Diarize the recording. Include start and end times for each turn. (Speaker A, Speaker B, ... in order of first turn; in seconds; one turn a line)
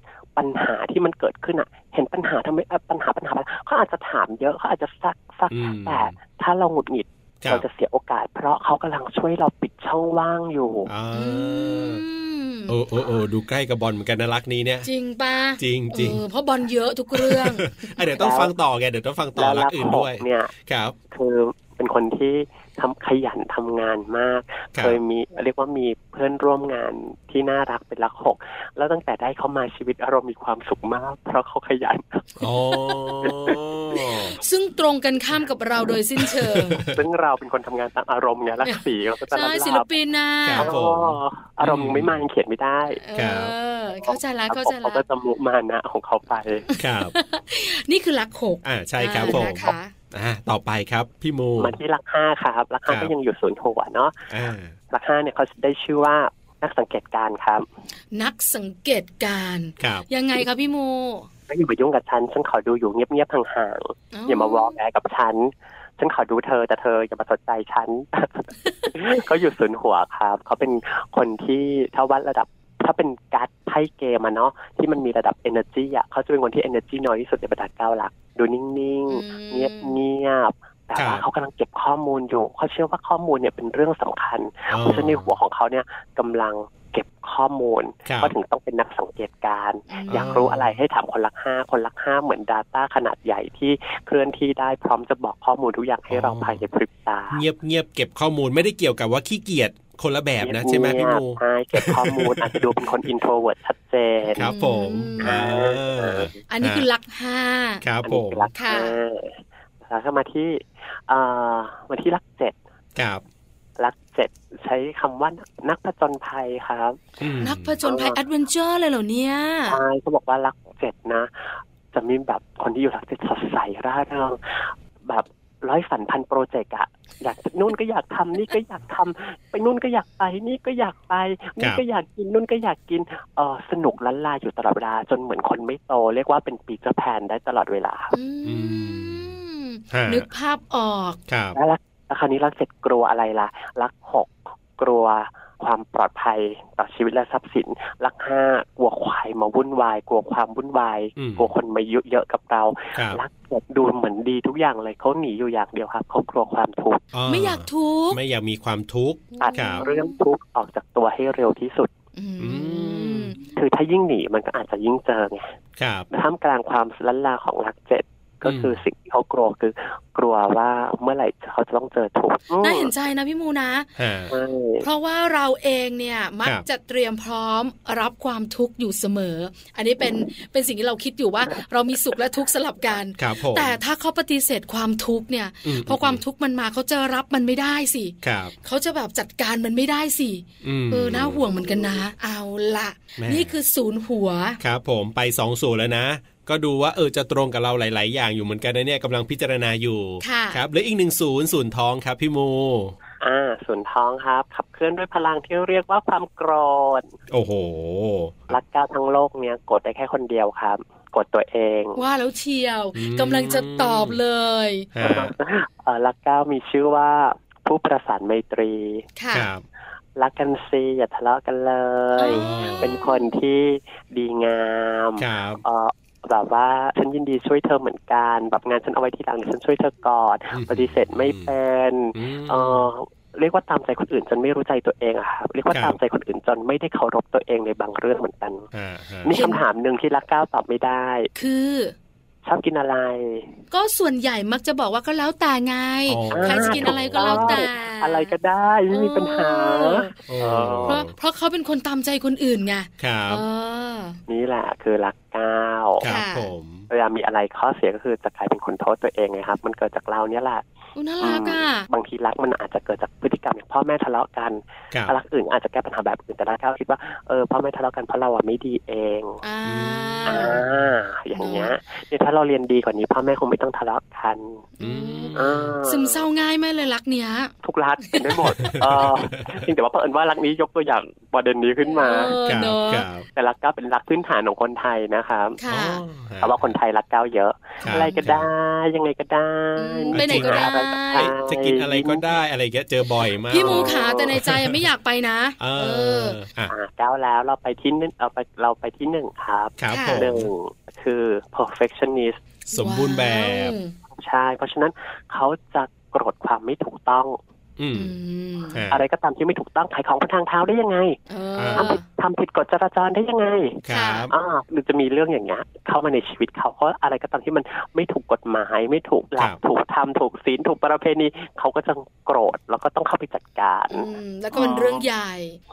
Speaker A: 0.4-10.9
Speaker B: 5.5-6.1
Speaker B: 10.9-12.0
Speaker C: 11.1-12.8
Speaker B: 12.7-14.9
Speaker C: 14.8-18.1
Speaker B: 15.6-16.2
Speaker B: 17.1-21.0
Speaker A: 18.2-18.5
Speaker A: 19.4-20.5
Speaker A: 21.1-32.3
Speaker B: 32.4-34.4
Speaker C: 32.7-33.4
Speaker C: 34.0-36.8
Speaker B: 36.2-37.0
Speaker A: 36.8-39.9
Speaker C: 39.3-40.7
Speaker B: 40.4-42.2
Speaker A: 40.6-43.0
Speaker C: 43.0-45.0
Speaker B: 43.1-43.5
Speaker A: 43.9-46.7
Speaker C: 46.7-49.9
Speaker B: 46.8-47.1
Speaker B: 48.6-51.8
Speaker A: 51.6-54.3
Speaker B: 54.3-54.7
Speaker A: 54.9-57.6
Speaker C: 58.1-61.3
Speaker B: 59.8-60.1
Speaker A: 61.5-97.4
Speaker C: 64.1-64.7
Speaker C: 79.1-80.0
Speaker B: 81.0-81.2
Speaker B: 84.7-85.3
Speaker B: 88.1-88.3
Speaker C: 89.9-90.5
Speaker B: 90.1-90.8
Speaker B: 96.1-96.6
Speaker B: 97.3-102.8
Speaker A: 100.4-104.5
Speaker C: 104.3-105.4
Speaker B: 104.4-106.9
Speaker A: 105.2-106.3
Speaker C: 106.5-107.8
Speaker B: 107.8-108.5
Speaker A: 108.0-112.6
Speaker C: 108.5-109.0
Speaker B: 113.0-113.2
Speaker A: 113.8-117.0
Speaker B: 117.2-117.8
Speaker C: 117.4-119.8
Speaker A: 117.8-118.2
Speaker A: 119.7-138.1
Speaker C: 138.1-141.2
Speaker B: 138.4-139.3
Speaker B: 139.9-140.3
Speaker B: 141.3-141.6
Speaker A: 141.5-157.0
Speaker B: 151.2-151.5
Speaker B: 152.9-153.2
Speaker B: 157.1-159.9
Speaker C: 157.3-158.2
Speaker C: 159.3-160.2
Speaker A: 159.4-161.9
Speaker C: 162.2-163.4
Speaker B: 162.4-163.3
Speaker A: 163.5-165.6
Speaker B: 165.8-166.1
Speaker A: 166.1-172.9
Speaker B: 168.4-168.8
Speaker C: 172.6-173.9
Speaker B: 174.0-174.3
Speaker A: 174.3-174.9
Speaker C: 174.8-194.6
Speaker B: 183.2-183.8
Speaker B: 185.7-186.2
Speaker B: 188.2-188.5
Speaker B: 190.6-191.5
Speaker B: 193.2-193.6
Speaker B: 194.6-202.9
Speaker C: 200.2-200.6
Speaker A: 203.2-207.2
Speaker B: 207.3-208.6
Speaker A: 208.5-212.0
Speaker C: 212.0-214.9
Speaker B: 212.9-214.2
Speaker B: 214.9-215.3
Speaker A: 215.0-219.1
Speaker C: 219.2-219.5
Speaker B: 219.3-219.6
Speaker A: 220.2-238.7
Speaker C: 222.2-223.2
Speaker B: 222.3-223.0
Speaker B: 225.2-225.6
Speaker B: 230.5-231.5
Speaker B: 232.1-232.9
Speaker B: 235.7-236.0
Speaker B: 238.7-239.3
Speaker A: 239.2-241.3
Speaker C: 239.3-239.6
Speaker C: 241.3-241.9
Speaker A: 242.4-243.6
Speaker C: 243.7-248.3
Speaker B: 246.1-247.7
Speaker A: 246.3-251.0
Speaker C: 248.9-250.1
Speaker B: 250.3-251.1
Speaker C: 250.8-254.2
Speaker B: 253.0-253.4
Speaker A: 254.3-256.1
Speaker B: 256.0-256.9
Speaker C: 256.1-256.5
Speaker A: 256.9-260.6
Speaker C: 261.0-261.9
Speaker A: 261.2-269.4
Speaker C: 269.4-270.6
Speaker B: 269.6-270.9
Speaker A: 270.3-274.6
Speaker C: 271.4-271.7
Speaker C: 274.8-277.5
Speaker B: 274.8-275.8
Speaker A: 275.4-276.2
Speaker A: 277.6-282.4
Speaker C: 278.1-278.5
Speaker B: 278.6-279.6
Speaker C: 281.8-283.1
Speaker B: 282.4-283.2
Speaker A: 283.3-285.6
Speaker C: 285.6-286.0
Speaker B: 285.7-286.7
Speaker A: 286.4-292.2
Speaker C: 287.8-288.3
Speaker B: 287.8-288.5
Speaker C: 289.8-291.3
Speaker B: 290.1-294.8
Speaker C: 293.5-296.4
Speaker A: 293.6-294.4
Speaker B: 295.6-296.7
Speaker A: 296.7-302.4
Speaker B: 299.8-300.5
Speaker C: 299.9-300.3
Speaker C: 302.7-303.9
Speaker B: 302.7-303.7
Speaker A: 304.1-307.4
Speaker B: 307.8-308.1
Speaker C: 307.9-308.8
Speaker B: 308.7-309.0
Speaker A: 308.9-311.2
Speaker C: 311.3-312.0
Speaker B: 311.6-312.0
Speaker A: 311.8-325.1
Speaker B: 313.9-314.3
Speaker C: 313.9-314.3
Speaker C: 323.9-325.6